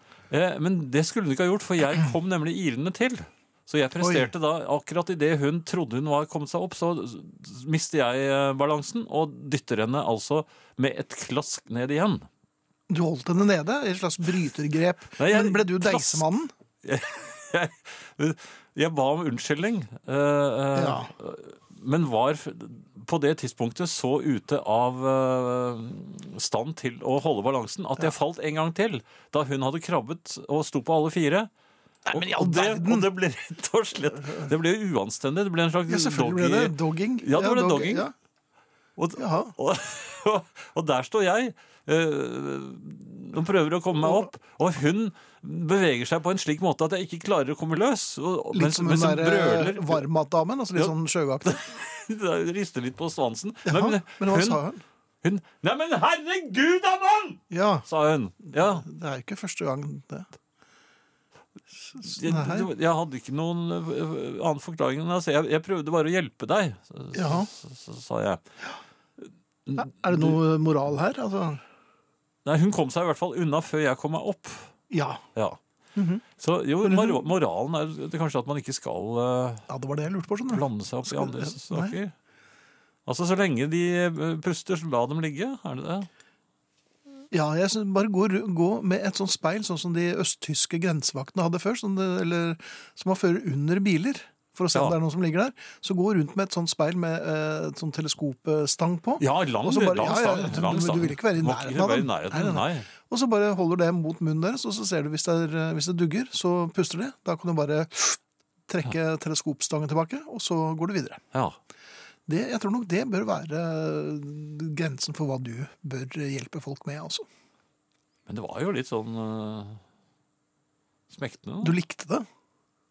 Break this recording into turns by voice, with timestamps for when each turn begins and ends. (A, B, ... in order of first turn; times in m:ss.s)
0:00.3-0:12.3 A
0:04.0-0:04.3 B
0:12.9-0:16.5 B
0:15.2-0:16.3 A
0:16.8-0:31.5 A
0:20.8-0:21.1 B
0:32.1-0:33.1 B
0:32.1-0:38.1 A
0:35.9-0:38.1 B
0:39.0-0:50.0 A
0:39.2-0:39.5 B
0:44.0-0:44.3 B
0:48.5-0:51.6 B
0:51.4-0:54.6 A
0:53.7-0:54.8 B
0:55.2-0:58.8 A
0:57.5-0:57.9 B
0:58.5-1:00.3 B
1:01.9-1:02.7 B
1:02.0-1:08.4 A
1:07.1-1:07.5 B
1:09.7-1:10.4 A
1:09.8-1:11.6 B
1:12.4-1:14.7 A
1:14.9-1:15.2 B
1:16.0-1:16.2 B
1:16.4-1:19.7 A
1:16.8-1:17.3 B
1:19.7-1:22.0 B
1:20.5-1:22.1 A
1:23.1-1:26.1 A
1:27.3-1:51.2 B
1:39.2-1:42.9 A
1:52.3-1:57.3 B
1:58.3-1:59.8 A
2:01.1-2:01.8 A
2:01.6-2:02.3 B